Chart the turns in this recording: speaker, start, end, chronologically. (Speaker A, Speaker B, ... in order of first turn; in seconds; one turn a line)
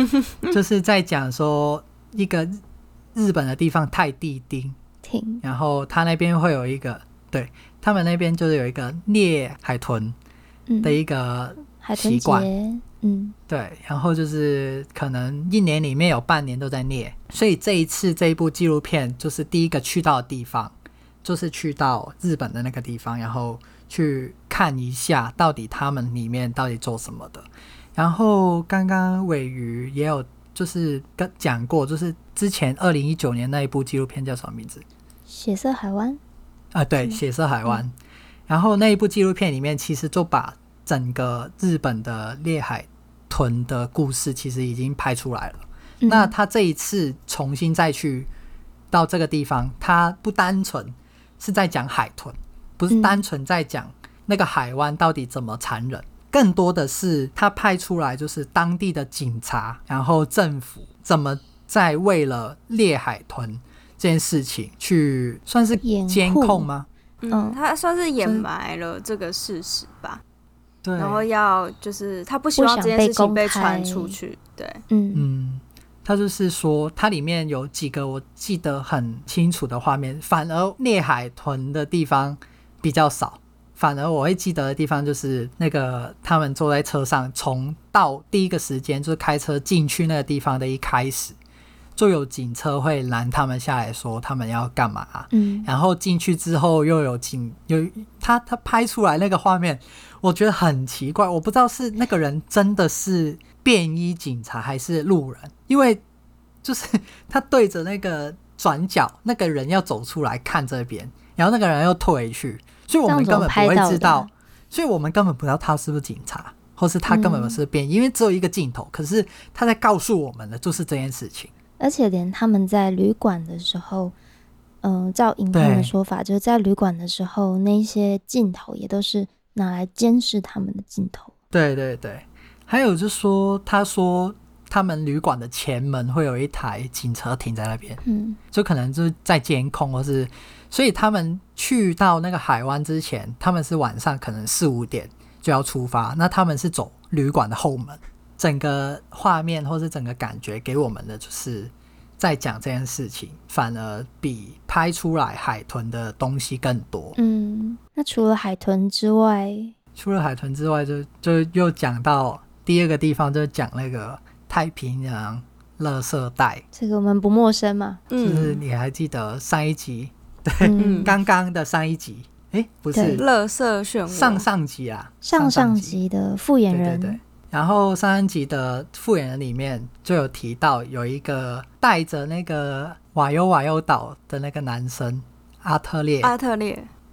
Speaker A: 0.4-2.6
Speaker A: 3.1-4.8
Speaker B: 5.0-5.4
Speaker A: 5.4-10.1
Speaker B: 10.7-11.0
Speaker A: 10.8-12.5
Speaker B: 11.8-13.3
Speaker A: 13.5-34.8
Speaker B: 35.3-36.2
Speaker A: 36.7-37.9
Speaker B: 37.0-37.8
Speaker A: 38.5-48.3
Speaker B: 46.0-46.3
Speaker A: 48.9-66.9
Speaker B: 52.9-53.2
Speaker B: 65.8-66.7
Speaker C: 67.2-70.2
Speaker B: 67.3-67.6
Speaker A: 68.2-68.5
Speaker A: 70.8-71.2
Speaker C: 71.0-74.8
Speaker B: 72.6-74.2
Speaker B: 74.9-75.2
Speaker A: 75.1-91.4
Speaker A: 92.0-106.0
Speaker B: 95.3-95.7
Speaker A: 106.6-121.5
Speaker B: 113.1-114.3
Speaker B: 117.1-117.6
Speaker B: 121.8-124.1
Speaker B: 124.8-131.3
Speaker A: 125.5-125.9
Speaker A: 131.5-138.0
Speaker B: 138.0-138.4
Speaker A: 138.5-157.2
Speaker B: 157.2-159.7
Speaker A: 159.9-166.6
Speaker B: 166.7-168.0
Speaker C: 168.1-168.6
Speaker A: 168.2-173.2
Speaker B: 170.6-171.2
Speaker C: 170.8-171.1
Speaker B: 172.9-173.2
Speaker C: 173.1-174.5
Speaker A: 174.1-176.0
Speaker B: 175.2-177.2
Speaker A: 176.7-186.3
Speaker C: 186.2-186.9